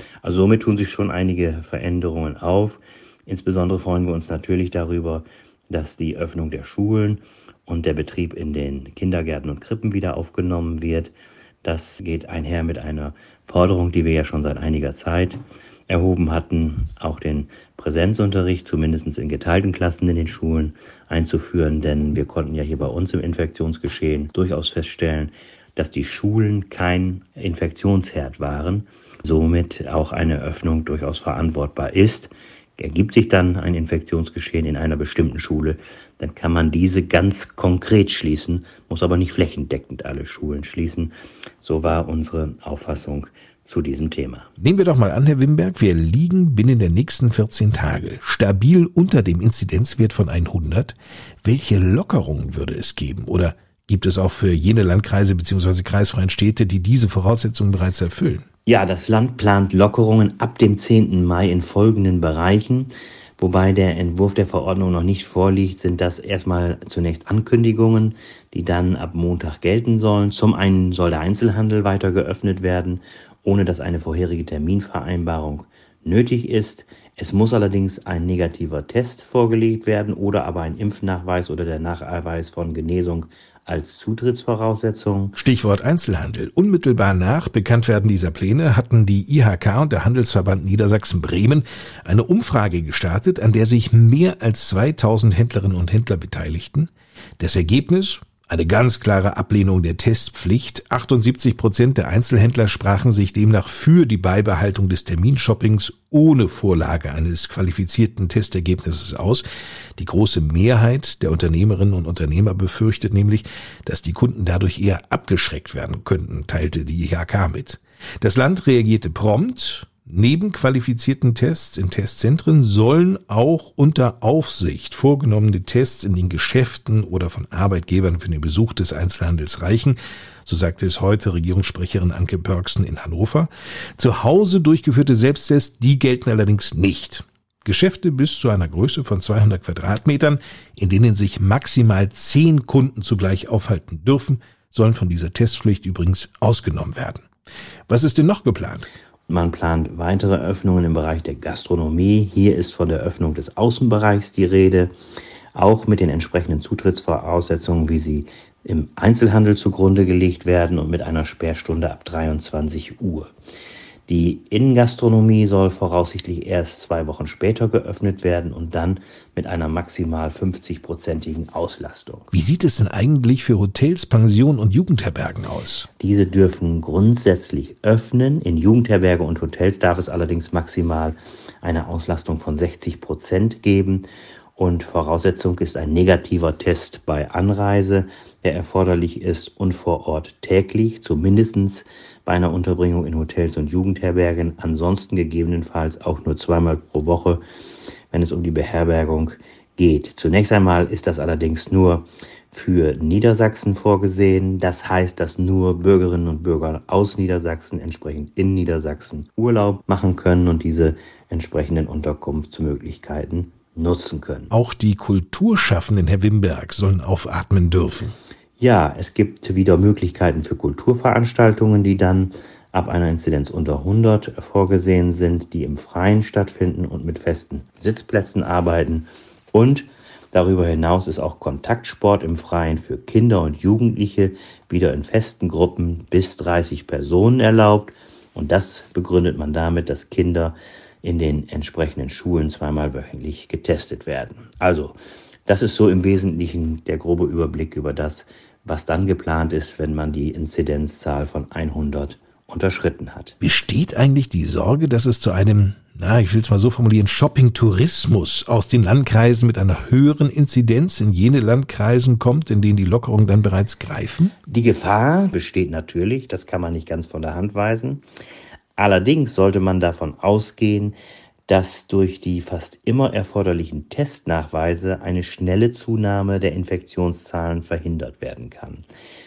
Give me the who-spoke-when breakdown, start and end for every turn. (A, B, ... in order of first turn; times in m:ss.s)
0:00.2-0:44.5 A
0:44.6-0:58.4 B
0:58.6-1:25.3 A
1:25.4-1:49.4 B
1:50.0-2:27.2 B
2:27.9-2:28.9 B
2:29.3-2:34.9 A
2:35.5-2:43.3 A
2:44.1-2:52.3 A
2:52.3-2:55.8 B
2:56.0-3:04.0 A
3:04.6-3:17.4 A
3:18.1-3:34.5 A
3:34.5-3:38.1 B
3:38.6-4:13.4 A
4:13.4-4:24.3 B
4:24.5-4:28.0 A
4:28.8-4:31.0 A
4:31.5-4:38.8 A